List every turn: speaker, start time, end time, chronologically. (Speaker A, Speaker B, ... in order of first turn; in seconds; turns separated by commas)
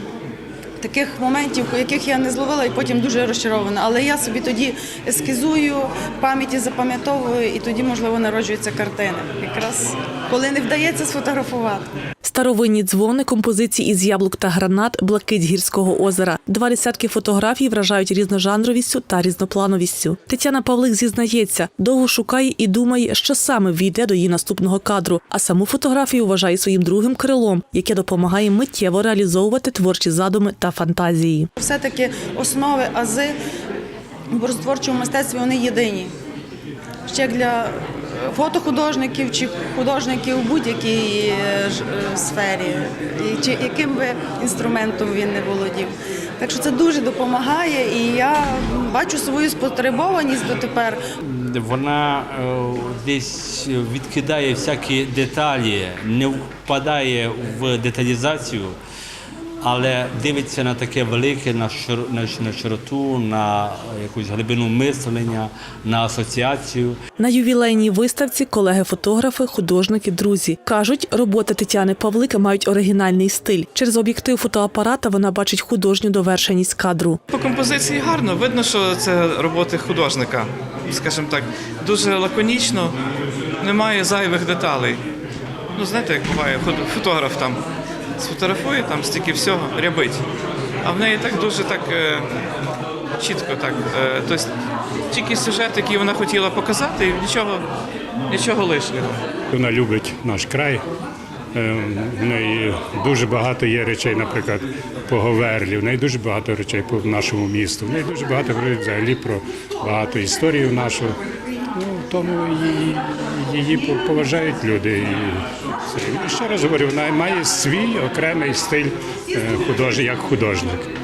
Speaker A: 0.8-11.9, Speaker B: 12.2-31.5, Speaker A: 31.6-33.4, Speaker A: 34.3-36.1, Speaker A: 37.0-51.0, Speaker C: 51.3-58.8, Speaker C: 59.6-67.0, Speaker B: 67.2-77.2, Speaker D: 77.3-82.9, Speaker D: 83.6-85.0, Speaker D: 85.7-87.6, Speaker D: 88.2-90.2, Speaker D: 90.8-92.2, Speaker D: 93.2-94.5, Speaker D: 95.1-97.7, Speaker D: 98.3-99.2, Speaker E: 99.5-100.8, Speaker E: 101.5-111.1, Speaker E: 111.7-120.9